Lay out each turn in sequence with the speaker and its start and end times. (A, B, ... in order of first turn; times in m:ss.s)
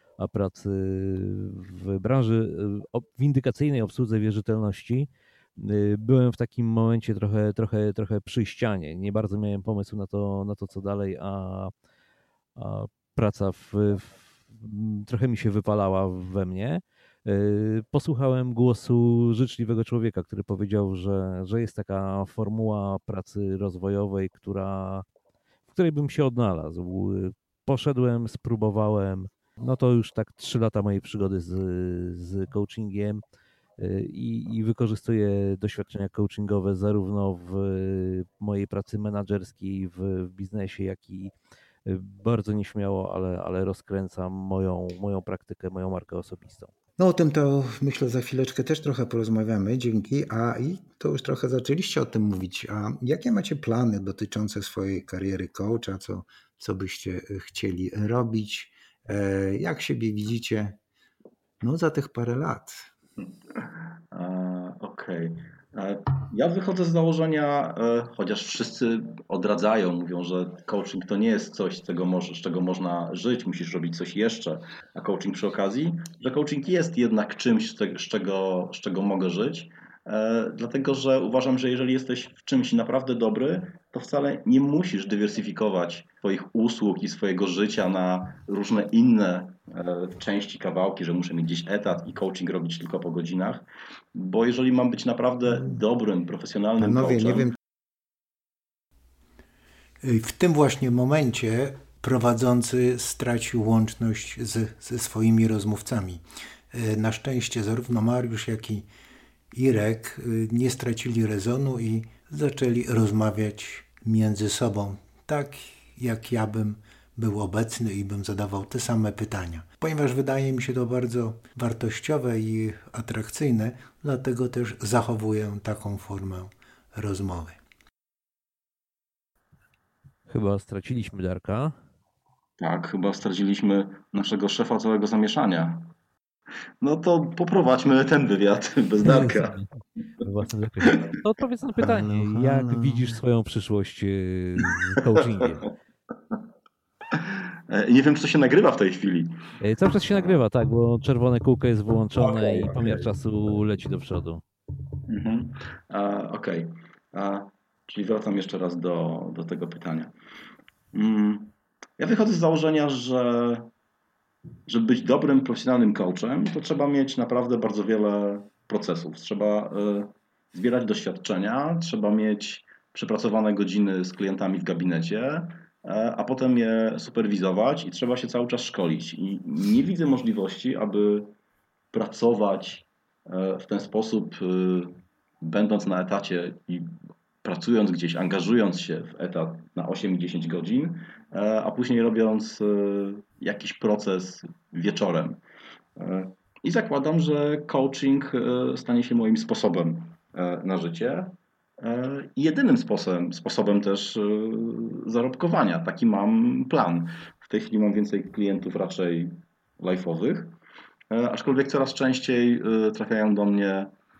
0:00.2-0:11.7 A
0:12.6-0:25.0 A
0:25.7-0:33.2 A
0:33.8-0:41.3 A
0:41.8-0:46.7 A
0:47.0-1:00.8 B
1:01.6-1:02.9 B
1:04.1-1:37.5 C
1:35.5-1:35.8 B
1:36.8-1:37.5 B
1:40.0-1:48.9 B
1:49.5-2:07.6 B
2:10.3-2:11.8 A
2:12.6-2:15.9 C
2:16.8-2:19.6 C
2:19.0-2:19.7 A
2:20.2-2:25.7 A
2:21.8-2:23.2 B
2:27.1-2:29.3 C
2:29.6-2:34.4 A
2:32.2-2:33.1 C
2:35.1-2:40.1 C
2:40.9-2:43.7 C
2:44.7-3:01.3 C
3:01.9-3:15.4 C
3:16.0-3:30.5 C
3:31.1-3:33.9 C